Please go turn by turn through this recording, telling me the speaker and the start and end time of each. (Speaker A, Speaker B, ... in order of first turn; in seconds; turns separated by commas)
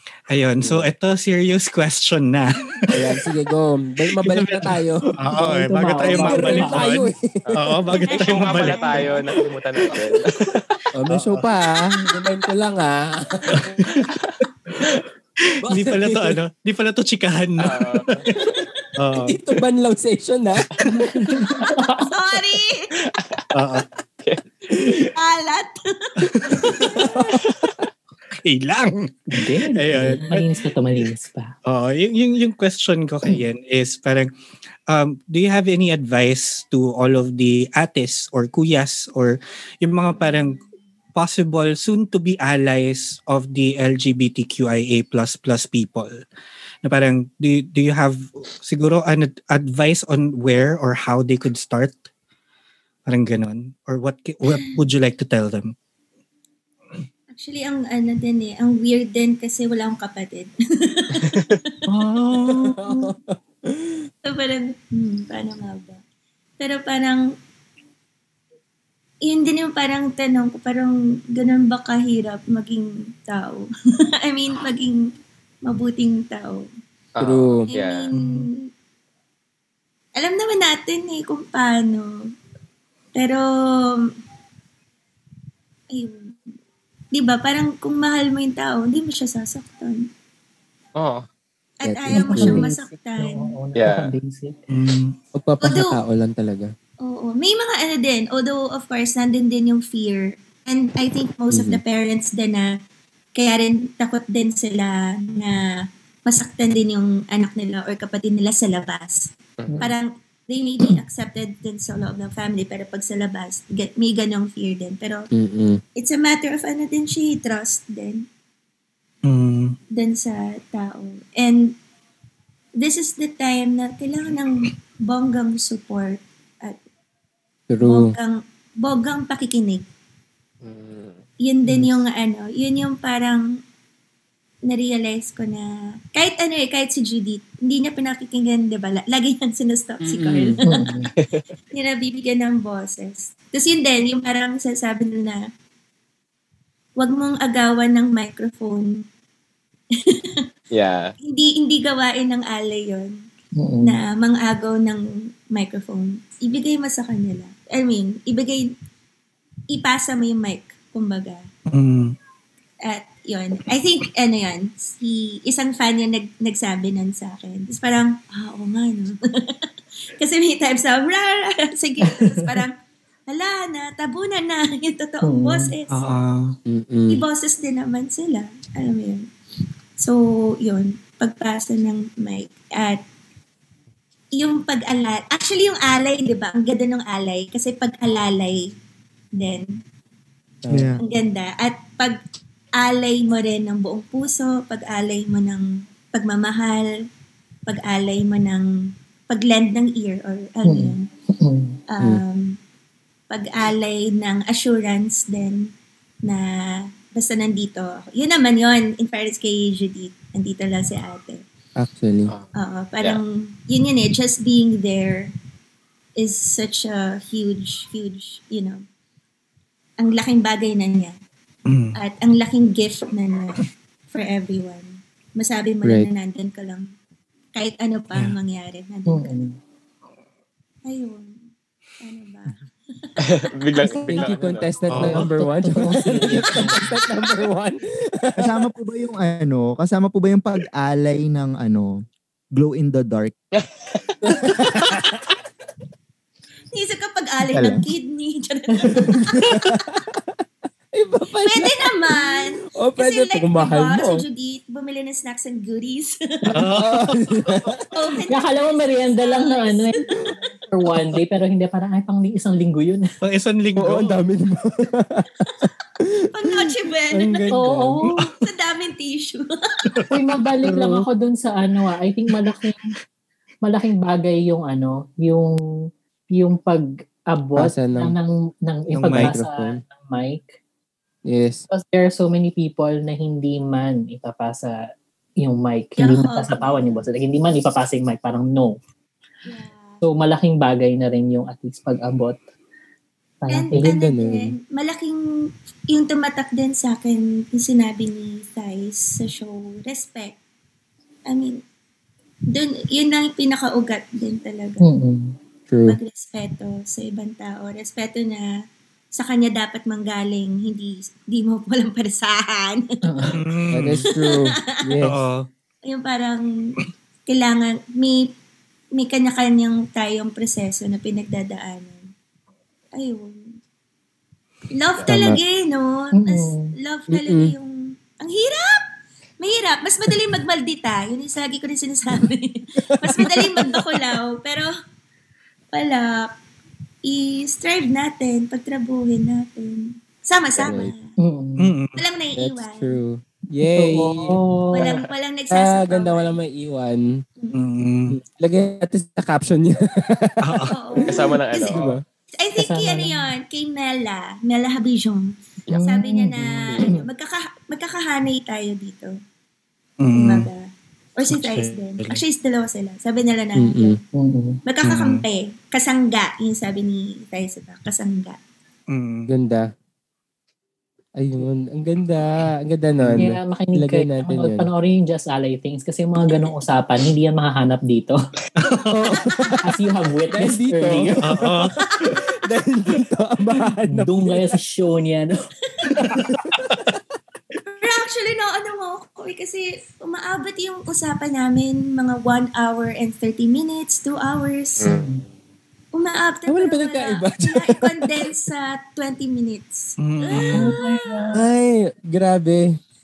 Speaker A: 0.3-3.2, Speaker B: 0.6-0.9, Speaker B: 2.9-5.1, Speaker A: 4.1-8.9, Speaker C: 5.4-6.9, Speaker B: 6.0-7.5, Speaker D: 7.4-10.6, Speaker E: 8.0-9.2, Speaker B: 10.9-14.1, Speaker A: 11.1-11.5, Speaker A: 13.5-14.1, Speaker A: 15.5-18.2, Speaker B: 15.6-16.4, Speaker D: 17.6-18.2, Speaker B: 18.4-21.2, Speaker A: 19.0-19.4, Speaker C: 21.1-22.1, Speaker E: 22.1-22.9, Speaker D: 23.1-23.4, Speaker A: 23.5-23.8, Speaker D: 24.2-25.1, Speaker E: 25.1-27.0, Speaker A: 26.2-27.7, Speaker B: 26.8-27.4, Speaker A: 28.4-30.5, Speaker C: 29.3-31.5, Speaker A: 31.6-34.3, Speaker A: 34.9-40.6, Speaker A: 41.1-46.1, Speaker A: 46.8-52.0, Speaker A: 53.1-55.7, Speaker E: 57.3-61.8, Speaker A: 61.9-62.9, Speaker B: 62.4-64.1, Speaker E: 64.2-66.0, Speaker E: 66.6-67.2, Speaker E: 69.2-73.7, Speaker E: 74.2-75.1, Speaker E: 75.6-76.7, Speaker D: 77.1-78.1, Speaker B: 77.2-77.7, Speaker E: 77.7-78.7, Speaker A: 78.1-78.5, Speaker E: 80.1-82.3, Speaker E: 83.1-84.1, Speaker E: 85.9-86.5, Speaker E: 87.1-90.1, Speaker D: 90.9-91.2, Speaker E: 91.8-93.5, Speaker B: 91.8-92.7, Speaker C: 92.1-94.6, Speaker D: 93.7-94.1, Speaker A: 94.7-95.1, Speaker B: 95.3-96.7, Speaker E: 95.6-96.0, Speaker E: 97.0-102.8, Speaker B: 101.5-101.8, Speaker E: 103.3-115.3, Speaker B: 115.3-115.8, Speaker E: 116.0-118.3, Speaker A: 119.2-119.8, Speaker E: 119.9-121.8, Speaker E: 122.8-126.8, Speaker B: 127.7-128.1, Speaker E: 127.8-129.8, Speaker D: 130.6-131.2, Speaker E: 131.4-133.6, Speaker C: 131.7-132.0, Speaker E: 134.7-141.1, Speaker B: 140.0-140.6, Speaker C: 140.6-141.1, Speaker D: 141.2-141.4, Speaker E: 141.7-145.4, Speaker E: 147.0-149.0, Speaker E: 149.9-150.4, Speaker D: 150.7-151.1, Speaker E: 151.2-153.2, Speaker C: 153.6-154.0, Speaker E: 153.8-158.7, Speaker E: 159.7-161.4, Speaker A: 161.7-162.1, Speaker E: 162.8-172.7, Speaker C: 172.1-172.4, Speaker E: 173.3-176.0, Speaker C: 175.2-175.7, Speaker A: 175.9-176.5, Speaker B: 176.7-177.2, Speaker E: 177.1-179.3, Speaker E: 180.0-183.0, Speaker E: 184.3-188.7, Speaker E: 189.4-189.8, Speaker B: 190.6-191.0, Speaker F: 190.7-191.0, Speaker E: 191.0-192.2, Speaker E: 192.8-196.9, Speaker E: 197.7-201.1, Speaker C: 200.6-201.8, Speaker E: 201.9-202.6, Speaker E: 203.3-205.7, Speaker E: 206.2-211.4, Speaker B: 211.8-212.3, Speaker E: 212.5-215.3, Speaker E: 216.2-218.8, Speaker E: 220.0-221.2, Speaker A: 221.7-221.9, Speaker E: 221.9-226.9, Speaker E: 227.5-229.4, Speaker C: 229.1-229.6, Speaker E: 230.8-231.4, Speaker E: 232.0-234.4, Speaker D: 233.2-235.1, Speaker B: 233.9-238.7, Speaker A: 234.9-235.3, Speaker C: 235.6-237.0, Speaker F: 238.4-241.9, Speaker F: 242.6-243.3, Speaker D: 243.5-244.2, Speaker B: 244.2-245.2, Speaker E: 246.7-249.5, Speaker F: 247.5-247.8, Speaker C: 248.8-249.1, Speaker B: 249.0-250.4, Speaker B: 250.9-254.2, Speaker E: 251.4-256.7, Speaker B: 256.4-257.9, Speaker A: 256.5-257.7, Speaker E: 257.9-260.1, Speaker C: 258.3-260.1, Speaker C: 260.7-263.1, Speaker A: 263.2-264.2, Speaker B: 263.8-268.0, Speaker E: 266.3-267.5, Speaker C: 267.5-268.3, Speaker E: 268.4-269.9, Speaker C: 270.1-272.9, Speaker B: 270.7-271.0, Speaker C: 273.6-275.5, Speaker C: 276.3-280.5, Speaker B: 277.6-278.1, Speaker A: 278.9-279.3, Speaker B: 279.1-279.8, Speaker B: 281.2-281.6, Speaker C: 281.7-284.8, Speaker C: 285.4-288.8, Speaker E: 286.0-287.0, Speaker E: 289.4-290.0, Speaker C: 290.0-292.4, Speaker C: 293.4-293.9, Speaker E: 293.5-295.2, Speaker B: 293.7-294.5, Speaker E: 295.9-300.4, Speaker E: 301.3-301.6, Speaker E: 302.5-304.8, Speaker C: 304.8-305.3, Speaker B: 305.7-306.0, Speaker E: 305.9-308.5, Speaker E: 309.1-313.3, Speaker C: 313.0-313.4, Speaker A: 313.3-314.1, Speaker B: 313.7-315.2, Speaker E: 314.0-314.9, Speaker A: 315.0-315.4, Speaker E: 315.8-316.7, Speaker E: 317.3-318.3, Speaker E: 318.9-322.1, Speaker E: 322.9-323.5, Speaker E: 324.7-328.8, Speaker B: 325.1-325.4, Speaker C: 326.1-326.7, Speaker B: 327.1-327.5, Speaker E: 329.4-334.7, Speaker B: 333.0-333.8, Speaker E: 335.7-336.3, Speaker E: 337.0-341.1, Speaker D: 340.6-340.9, Speaker B: 340.6-340.9, Speaker C: 341.2-341.7, Speaker A: 341.6-342.0, Speaker E: 342.0-343.0, Speaker B: 342.4-344.9, Speaker C: 343.6-344.9, Speaker E: 344.7-346.4, Speaker B: 345.5-347.2, Speaker A: 347.5-348.2, Speaker B: 348.1-351.1, Speaker A: 350.4-350.8, Speaker E: 350.7-351.9, Speaker D: 351.1-352.0, Speaker B: 351.7-352.0, Speaker E: 352.4-359.1, Speaker C: 352.6-353.2, Speaker C: 355.7-357.0, Speaker D: 356.6-356.9, Speaker A: 360.0-360.5, Speaker E: 360.1-364.0, Speaker A: 361.3-362.2, Speaker B: 363.6-364.0, Speaker C: 364.1-364.6, Speaker E: 364.6-368.4, Speaker A: 364.8-365.2, Speaker A: 368.9-369.3, Speaker B: 369.3-369.7, Speaker B: 371.1-374.7, Speaker C: 373.1-378.1, Speaker A: 378.6-379.4, Speaker B: 378.9-379.6, Speaker C: 379.6-381.2, Speaker B: 380.3-384.6, Speaker A: 381.2-381.8, Speaker C: 383.9-385.3, Speaker C: 385.9-386.2, Speaker B: 386.4-386.9, Speaker E: 387.7-394.9, Speaker D: 394.8-395.2, Speaker C: 394.8-395.2, Speaker E: 395.9-401.3, Speaker B: 396.5-398.3, Speaker A: 400.0-400.8, Speaker C: 400.5-401.4, Speaker B: 401.3-402.8